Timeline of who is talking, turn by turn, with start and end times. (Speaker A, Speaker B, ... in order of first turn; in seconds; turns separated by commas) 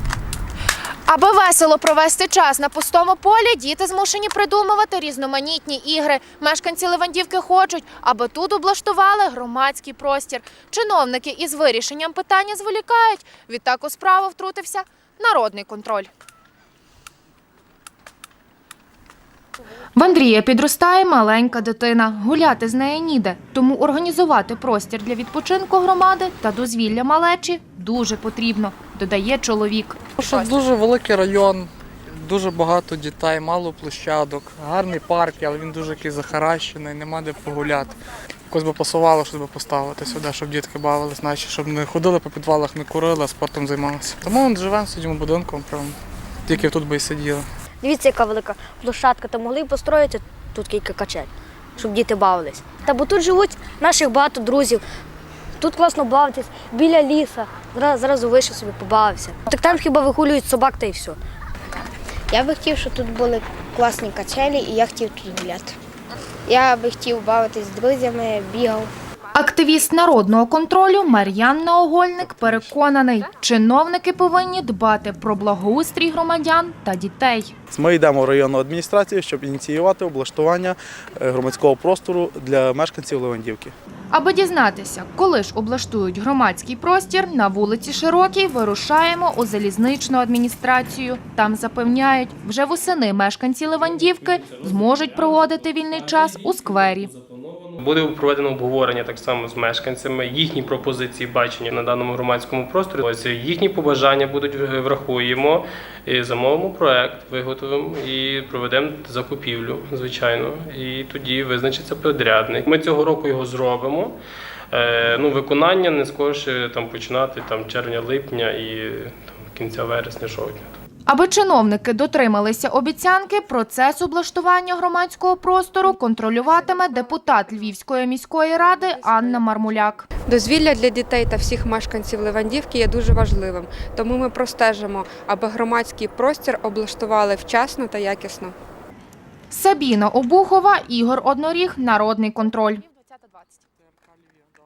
Speaker A: 1.1-16.1, Speaker A: 20.0-30.4, Speaker B: 30.2-37.9, Speaker B: 38.5-46.0, Speaker B: 46.5-47.5, Speaker C: 47.8-54.8, Speaker C: 55.6-61.2, Speaker D: 62.3-65.8, Speaker D: 66.5-68.9, Speaker A: 69.3-77.5, Speaker E: 77.7-83.7, Speaker A: 84.1-97.1, Speaker F: 93.7-114.2, Speaker F: 114.7-120.8, Speaker A: 121.1-130.0, Speaker G: 126.6-127.2, Speaker G: 128.5-138.5, Speaker A: 139.5-143.3